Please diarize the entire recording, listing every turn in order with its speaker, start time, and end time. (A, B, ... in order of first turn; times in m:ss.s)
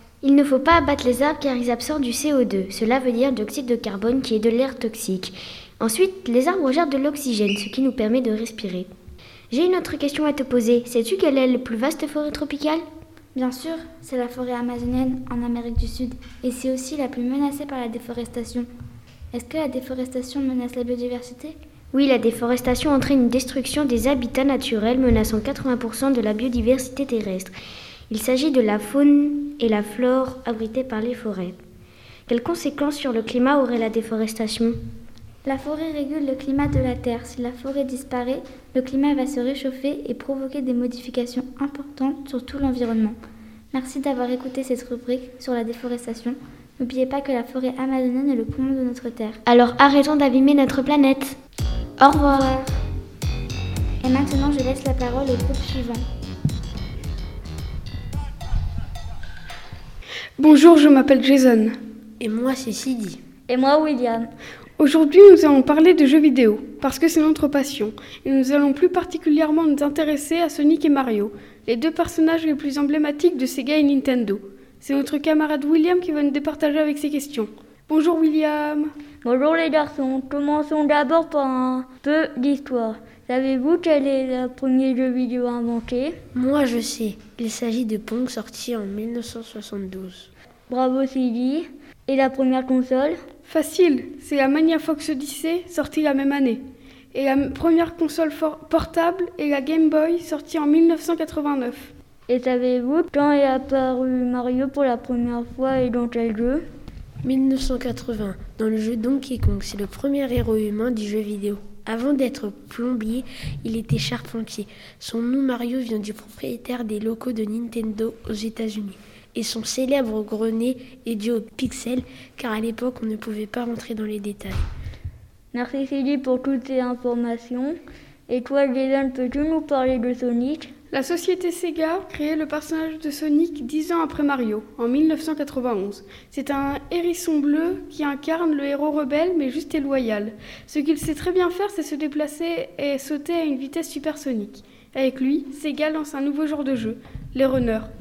0:00.2-0:08.9 A
0:09.5-0:12.8 A
0:13.4-0:17.6 B
0:18.2-0:18.7 B
0:20.1-0:21.5 B
0:21.9-0:27.6 A
0:28.1-0:31.6 A
0:32.3-0:34.8 A
0:35.4-0:43.2 B
0:43.7-0:49.4 B
0:49.4-0:51.4 A
0:52.0-0:52.5 A
0:54.0-0:56.0 B
1:00.4-1:01.8 C
1:02.4-1:03.1 D
1:03.5-1:04.3 E
1:04.8-1:18.9 C
1:19.2-1:26.2 E
1:29.0-1:30.2 D
1:30.7-1:33.2 E
1:33.5-1:36.6 C
1:37.1-1:41.9 C
1:42.3-1:46.6 E
1:47.3-1:59.0 D
1:59.5-2:02.0 D
2:02.6-2:04.4 D
2:05.5-2:10.7 E
2:10.9-2:27.9 C